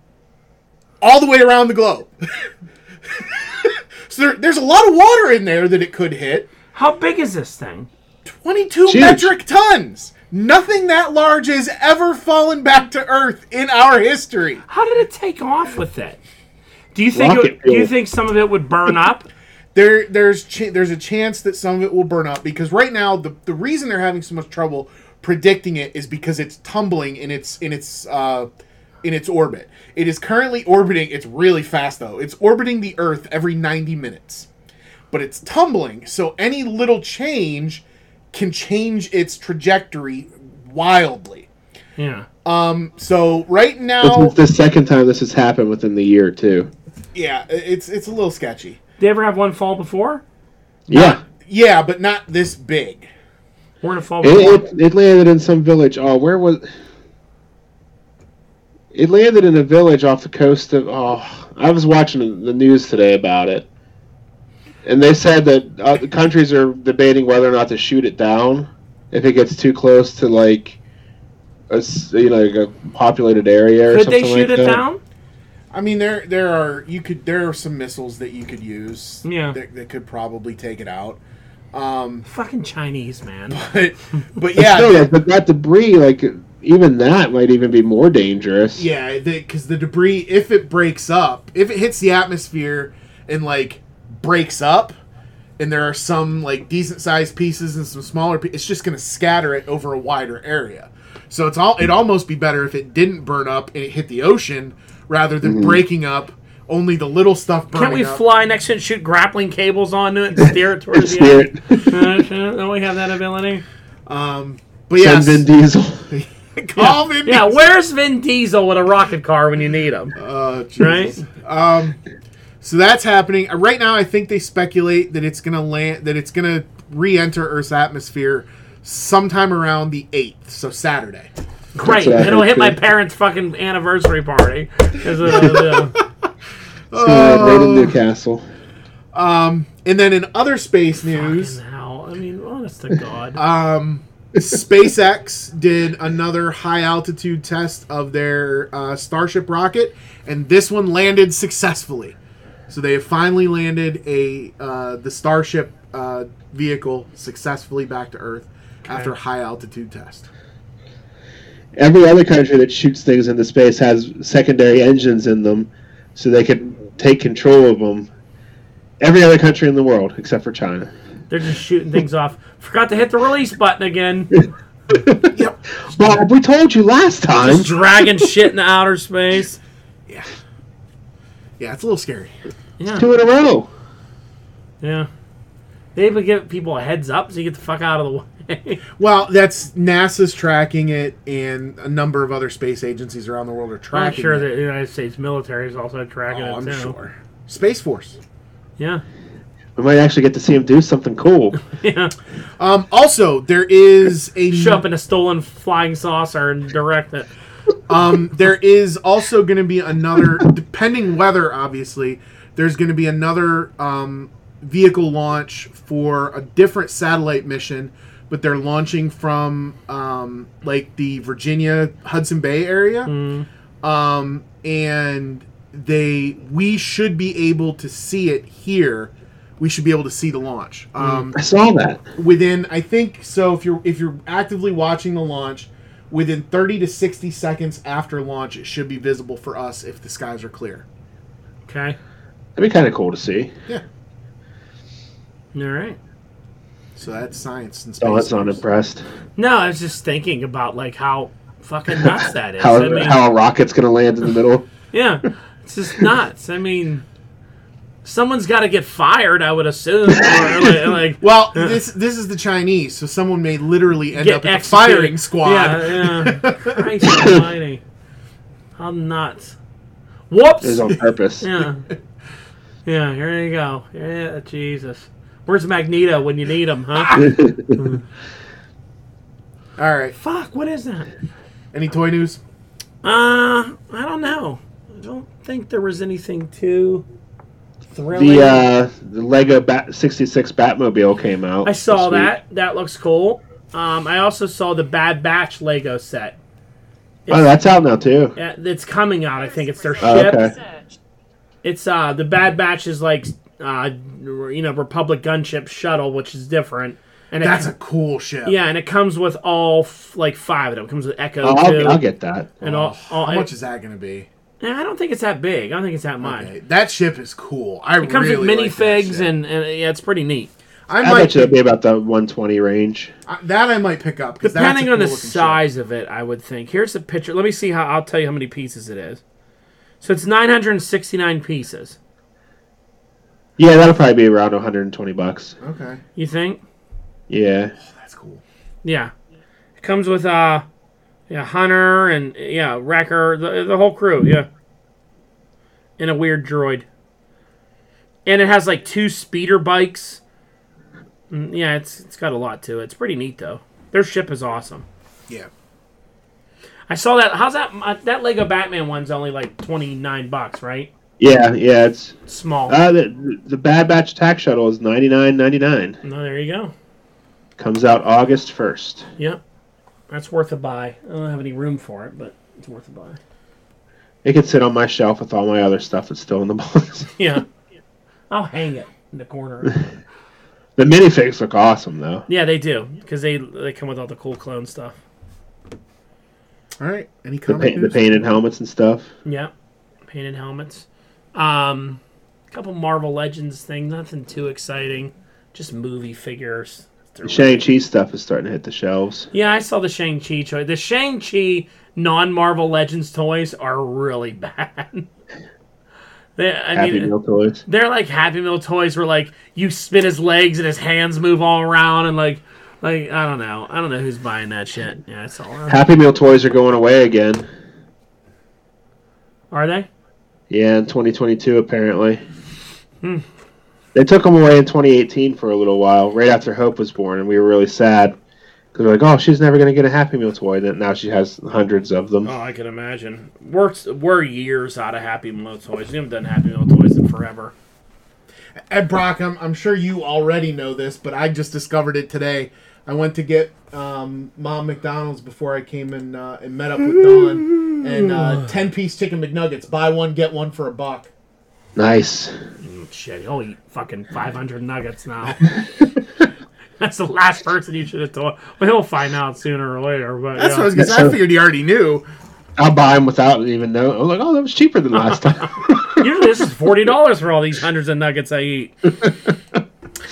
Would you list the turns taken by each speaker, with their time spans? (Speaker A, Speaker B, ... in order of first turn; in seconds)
Speaker A: 1.0-2.5, 3.1-6.5, 8.2-14.6, 19.7-28.5, 29.0-34.5, 35.1-41.5, 42.4-44.3, 47.1-48.8, 50.9-53.1, 75.7-81.2, 81.7-82.2, 83.5-85.1, 88.8-95.0, 95.6-108.2, 114.1-115.5, 116.1-117.6, 120.2-122.0, 122.6-131.3, 135.2-136.0, 136.9-138.0, 139.1-141.6, 143.4-152.2, 152.7-160.3, 175.3-175.6, 181.6-182.3, 189.0-194.5, 196.3-198.2, 202.6-204.8, 207.9-223.1, 223.8-231.4, 232.2-240.8, 246.9-248.6, 261.2-266.8, 279.8-280.1, 281.7-282.4, 307.4-308.6, 313.0-314.3, 316.2-319.3, 320.9-321.5, 323.2-325.6, 335.6-336.0, 337.8-338.4, 386.8-388.3, 438.7-451.1, 460.3-462.0
Speaker B: 6.7-7.9, 14.7-16.2, 16.9-19.3, 42.0-42.3, 49.0-50.2, 53.8-54.6, 73.9-75.0, 79.2-79.6, 82.2-83.7, 107.7-113.6, 116.8-120.1, 120.8-121.2, 131.7-136.0, 141.1-143.4, 158.8-159.1, 171.3-174.3, 177.4-179.6, 182.8-183.0, 184.8-185.1, 185.9-188.8, 193.9-196.9, 198.8-199.0, 201.6-202.1, 204.5-207.3, 223.1-223.5, 241.7-242.0, 245.5-246.0, 249.4-253.2, 254.9-257.0, 258.0-261.8, 264.1-267.8, 268.8-269.6, 270.3-271.9, 272.8-278.0, 280.2-281.1, 283.0-287.1, 287.9-288.6, 291.6-296.4, 297.3-297.5, 298.4-300.5, 301.6-307.7, 308.4-312.0, 312.6-313.5, 314.6-316.5, 318.0-320.5, 324.4-329.2, 330.0-332.0, 336.1-336.6, 338.8-339.1, 339.8-340.6, 341.3-344.5, 346.0-346.9, 348.2-350.2, 351.3-354.9, 356.9-360.9, 362.3-362.8, 366.0-366.7, 370.1-373.2, 377.2-377.4, 378.3-379.8, 382.3-385.0, 389.2-389.5, 390.1-392.0, 392.5-397.6, 399.3-405.1, 406.4-407.1, 407.7-415.8, 419.5-419.9, 432.2-437.5, 452.6-455.4, 456.8-460.7, 465.0-469.1
Speaker C: 8.9-9.3, 17.1-17.9, 44.0-46.7, 50.9-51.2, 54.2-56.6, 58.9-63.6, 64.8-70.8, 71.7-74.8, 84.5-88.8, 105.4-105.8, 110.4-112.2, 115.0-116.1, 131.8-132.8, 136.9-138.4, 161.8-168.1, 169.0-170.9, 174.9-177.9, 182.9-183.7, 199.8-201.6, 231.0-232.0, 242.6-243.5, 248.0-249.0, 252.0-254.7, 260.1-260.9, 270.6-271.5, 277.1-277.8, 288.1-292.3, 297.3-298.3, 300.0-300.6, 311.4-312.9, 321.0-323.1, 333.6-335.6, 337.3-337.7, 361.2-366.0, 367.6-369.1, 374.2-377.1, 380.8-382.2, 387.5-389.1, 397.2-399.3, 406.7-407.6, 415.7-417.4, 420.5-422.2, 423.9-428.1, 428.7-432.3, 451.8-452.3, 460.8-461.1, 462.6-466.1